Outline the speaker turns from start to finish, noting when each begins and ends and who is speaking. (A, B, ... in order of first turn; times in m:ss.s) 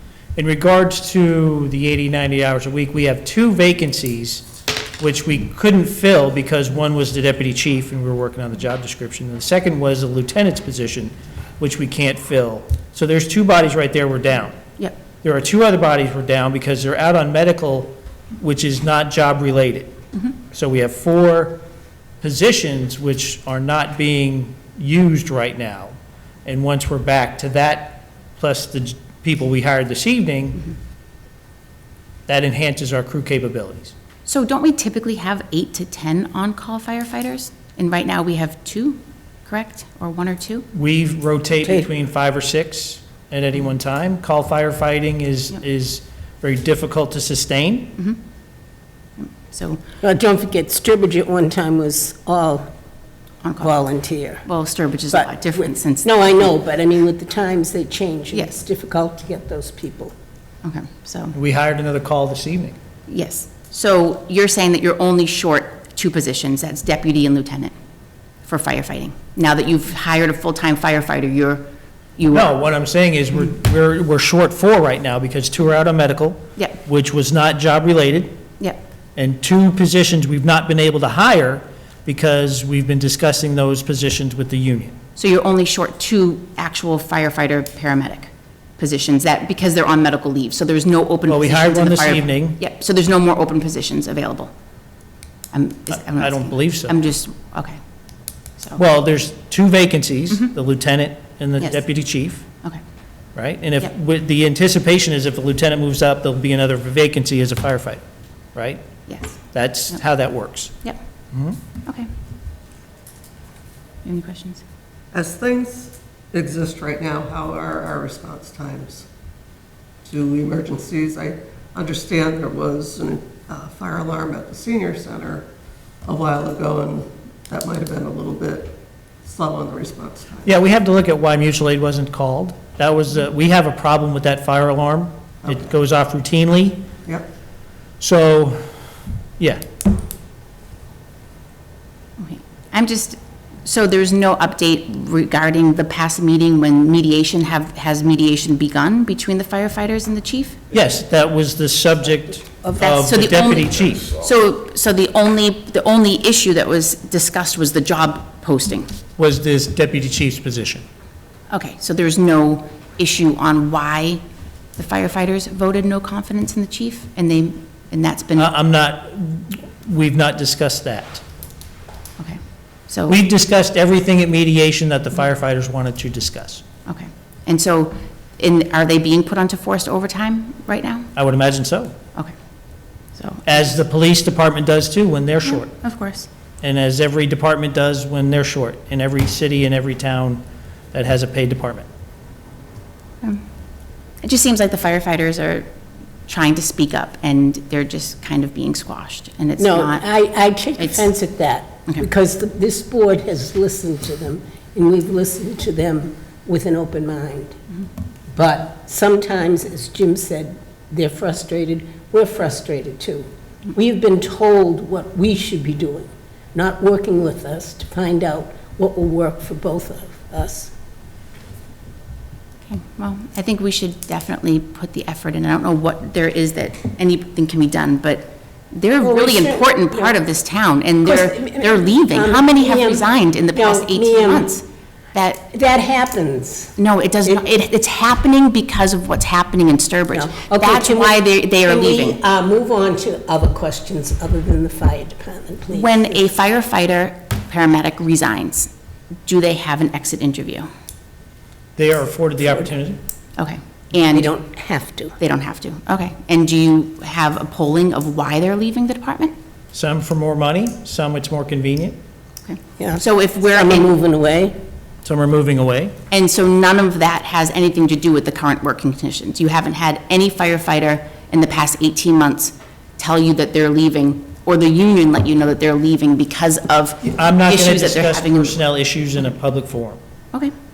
0:00.4-0:04.5 A
0:05.0-0:14.6 A
0:15.2-0:19.9 A
0:20.5-0:21.6 A
0:22.2-0:25.9 A
0:26.4-0:30.7 A
0:32.3-0:33.9 A
0:34.2-0:40.6 B
0:40.7-0:48.0 A
0:49.2-0:49.8 B
0:50.0-0:52.6 C
0:53.4-0:53.7 B
0:53.6-0:54.4 C
0:54.4-0:56.3 B
0:55.1-1:00.1 C
1:00.6-1:01.3 B
1:01.3-1:02.8 A
1:03.1-1:07.7 B
1:08.4-1:11.6 B
1:12.2-1:12.5 B
1:12.3-1:18.4 A
1:19.2-1:24.9 A
1:25.2-1:34.5 B
1:31.3-1:32.6 A
1:35.5-1:37.8 B
1:35.9-1:37.0 A
1:38.8-1:42.4 A
1:43.4-1:48.0 A
1:48.5-1:48.8 A
1:49.1-1:49.4 B
1:49.5-1:50.7 A
1:51.3-1:51.6 A
1:54.0-1:54.6 B
1:55.1-1:59.0 D
2:00.0-2:05.4 D
2:06.0-2:10.5 D
2:10.4-2:16.9 A
2:18.0-2:18.6 A
2:19.4-2:19.6 A
2:22.2-2:30.6 B
2:30.7-2:34.1 A
2:32.8-2:38.9 B
2:39.2-2:40.8 A
2:41.5-2:44.2 B
2:44.8-2:48.5 B
2:48.4-2:51.2 A
2:52.2-2:53.1 B
2:53.1-2:56.6 A
2:56.8-3:01.1 B
3:01.2-3:01.9 A
3:03.1-3:03.4 B
3:03.4-3:05.7 A
3:05.4-3:06.3 B
3:06.6-3:10.4 A
3:10.9-3:11.8 A
3:14.2-3:15.7 B
3:16.3-3:20.1 B
3:19.6-3:27.6 C
3:20.8-3:21.1 B
3:28.3-3:40.7 C
3:42.6-3:55.4 B
3:49.0-3:50.2 C
3:51.0-3:54.6 C
3:55.5-3:57.4 C
3:56.8-4:02.2 B
4:00.1-4:06.2 C
4:05.7-4:08.7 B
4:09.2-4:10.7 B
4:11.8-4:13.0 A
4:13.4-4:14.3 B
4:14.1-4:15.2 C
4:15.2-4:19.3 B
4:19.7-4:22.0 A
4:22.4-4:23.9 B
4:22.8-4:24.6 C
4:25.0-4:25.9 A
4:26.1-4:38.6 B
4:37.0-4:40.0 A